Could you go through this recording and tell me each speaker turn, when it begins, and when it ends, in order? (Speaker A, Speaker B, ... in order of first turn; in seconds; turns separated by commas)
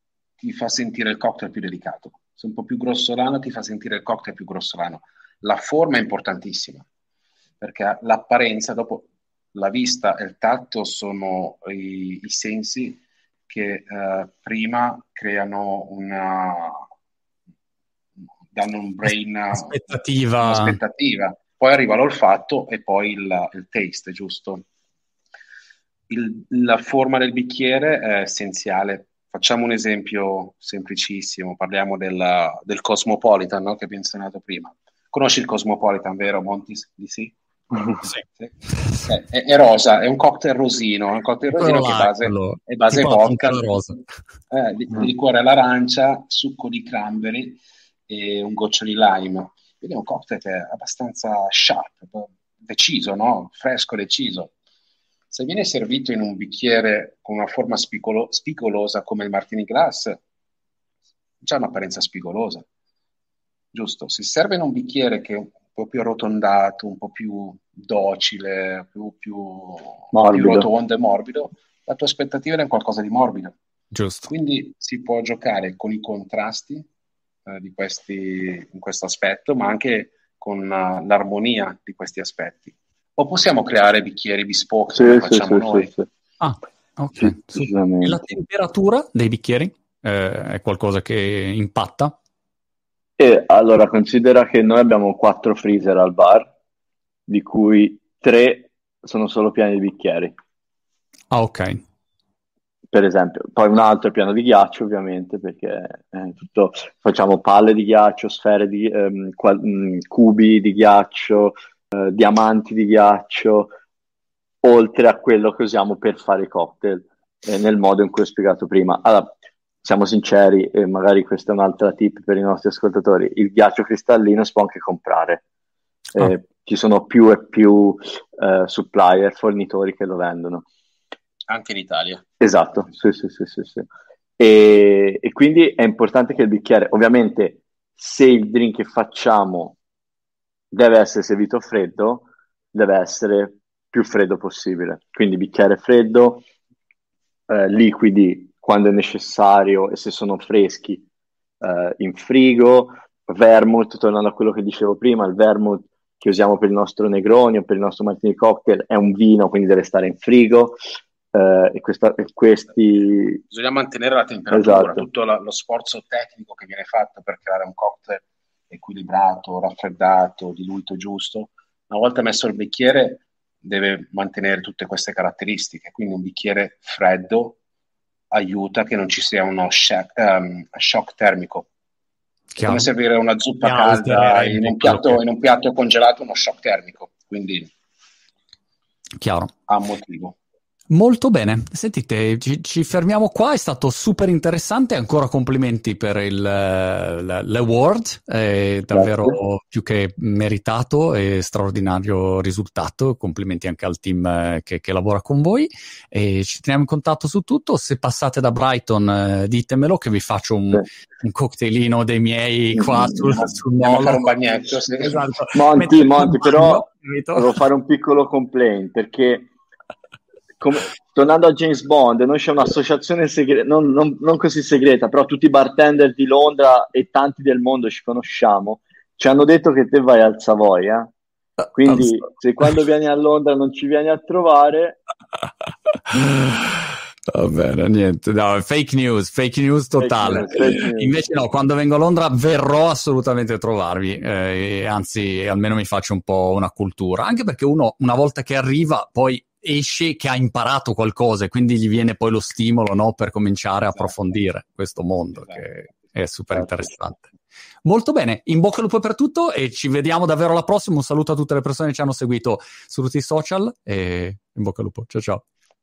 Speaker A: 0.4-6.9, Speaker A: 7.6-16.8, Speaker A: 18.5-24.6, Speaker B: 19.5-20.8, Speaker A: 26.1-37.3, Speaker C: 37.7-38.0, Speaker A: 38.4-43.8, Speaker B: 38.7-39.1, Speaker B: 41.5-44.0, Speaker A: 44.5-54.5, Speaker A: 55.3-60.2, Speaker A: 61.4-62.6, Speaker A: 63.7-73.5, Speaker C: 70.1-70.7, Speaker B: 73.9-74.3, Speaker A: 74.3-76.9, Speaker A: 77.5-85.9, Speaker C: 84.9-86.1, Speaker B: 86.4-92.1, Speaker C: 87.2-88.3, Speaker C: 93.2-96.5, Speaker C: 97.3-100.4, Speaker B: 101.3-101.8, Speaker C: 102.9-113.7, Speaker C: 114.6-125.4, Speaker C: 126.1-130.7, Speaker A: 131.5-132.3, Speaker C: 132.4-133.9, Speaker C: 134.4-139.8, Speaker C: 140.7-146.4, Speaker C: 147.5-151.1, Speaker C: 151.6-160.8, Speaker C: 161.3-163.4, Speaker A: 163.5-177.6, Speaker C: 164.5-165.1, Speaker A: 178.3-181.7, Speaker B: 182.6-182.9, Speaker A: 182.6-187.7, Speaker B: 183.6-185.2, Speaker B: 189.2-189.5, Speaker A: 189.7-190.4, Speaker B: 190.9-214.3, Speaker C: 198.9-199.4, Speaker C: 212.8-213.1, Speaker A: 213.4-215.2, Speaker B: 215.0-217.6, Speaker C: 215.5-219.5, Speaker C: 220.6-231.1, Speaker B: 231.6-232.7, Speaker C: 231.7-235.0, Speaker B: 236.1-257.3, Speaker C: 240.0-241.2, Speaker A: 255.3-255.7, Speaker B: 257.8-265.4